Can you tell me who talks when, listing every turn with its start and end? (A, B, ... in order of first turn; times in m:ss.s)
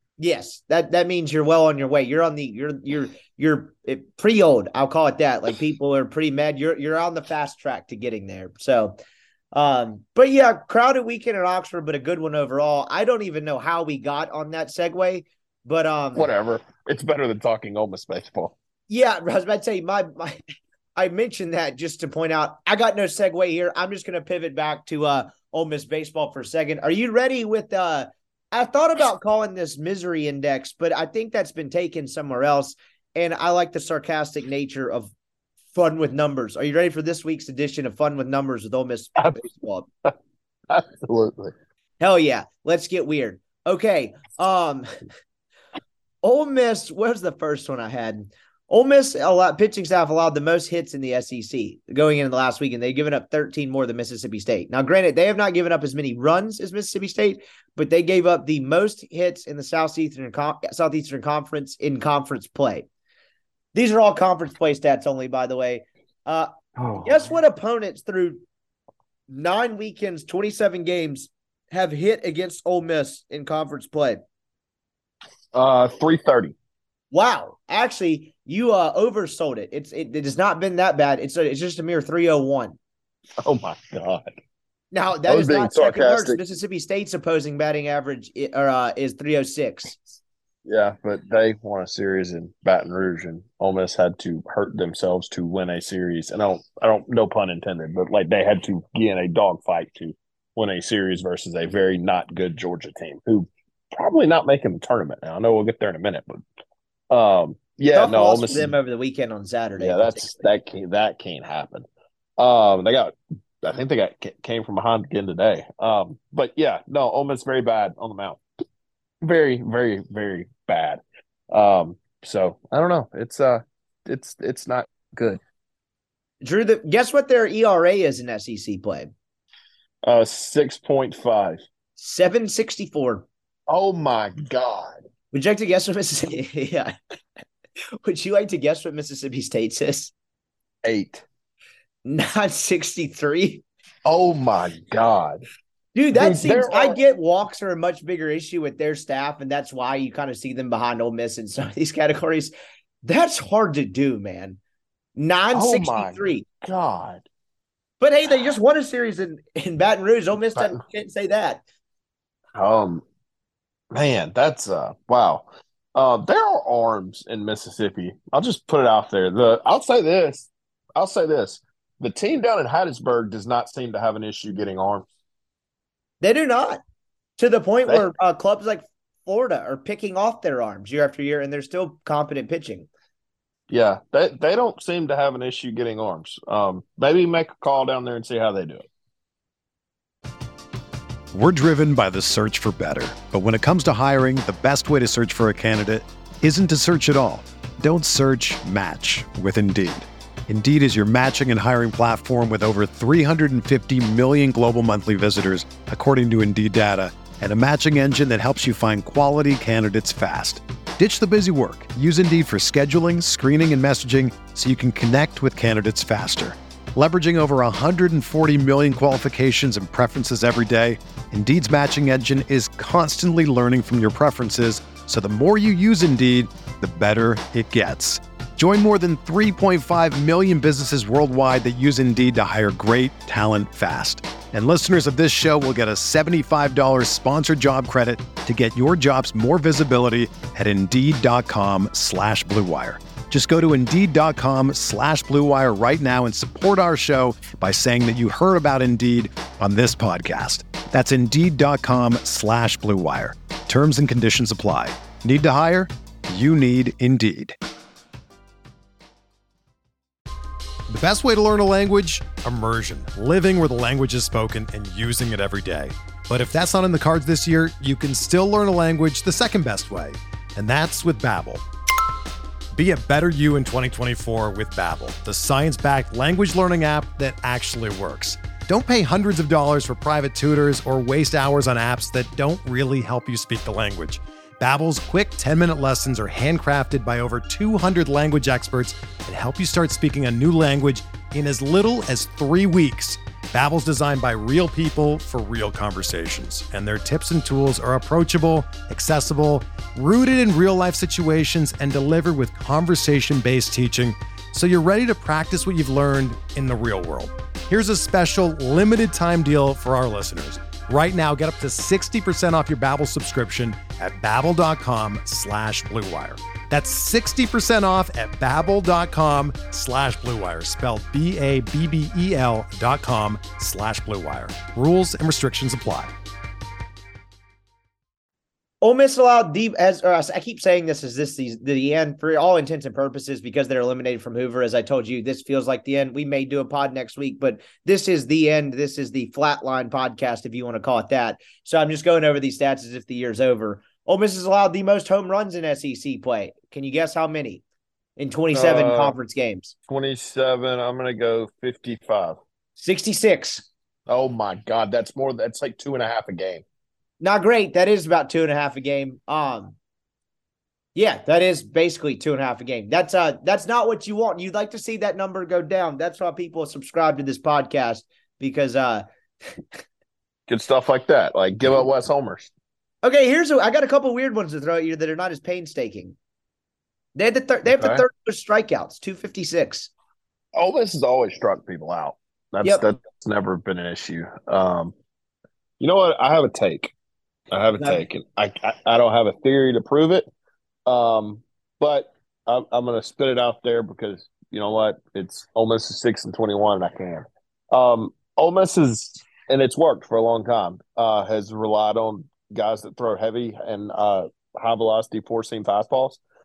0:00.2-0:09.0 A
0:09.5-0:16.3 A
0:16.1-0:18.5 B
0:18.9-0:20.4 A
0:21.0-0:35.1 A
0:35.7-0:39.9 A
0:40.7-0:41.5 B
0:42.0-0:44.9 A
0:46.2-1:02.9 A
1:03.7-1:06.5 A
1:06.8-1:07.3 B
1:07.0-1:08.4 A
1:09.3-1:14.2 A
1:15.5-1:16.5 B
1:17.1-1:22.8 A
1:23.4-1:24.3 B
1:24.9-1:30.2 A
1:25.2-1:26.4 B
1:30.6-1:46.4 B
1:47.1-1:48.7 B
1:47.9-1:50.5 A
1:49.8-1:51.9 B
1:52.4-1:58.4 B
1:59.2-2:05.4 B
2:06.4-2:09.1 A
2:10.0-2:11.6 B
2:12.0-2:13.2 A
2:13.7-2:15.0 B
2:15.3-2:16.9 A
2:18.0-2:20.1 A
2:20.8-2:21.2 B
2:22.0-2:23.6 A
2:24.0-2:25.4 B
2:25.9-2:32.5 A
2:26.1-2:27.0 B
2:33.0-2:34.6 A
2:35.2-2:36.4 A
2:35.5-2:37.2 B
2:38.0-2:41.6 A
2:42.6-2:43.0 B
2:43.9-2:55.0 B
2:56.2-2:56.8 A
2:57.4-3:02.9 A
3:03.7-3:08.8 B
3:11.3-4:17.6 C
4:20.9-4:31.6 C
4:32.7-5:26.1 C
5:28.8-5:47.6 A
5:48.2-5:49.7 A
5:48.5-5:49.2 B
5:49.9-5:52.4 B
5:52.8-5:53.7 A
5:54.1-5:56.6 B
5:57.2-5:59.8 A
6:00.9-6:09.6 A
6:10.5-6:12.5 B
6:13.0-6:16.2 A
6:17.1-6:19.9 A
6:17.6-6:18.0 B
6:20.5-6:24.9 B
6:25.8-6:26.9 B
6:27.5-6:30.3 B
6:30.8-6:46.2 B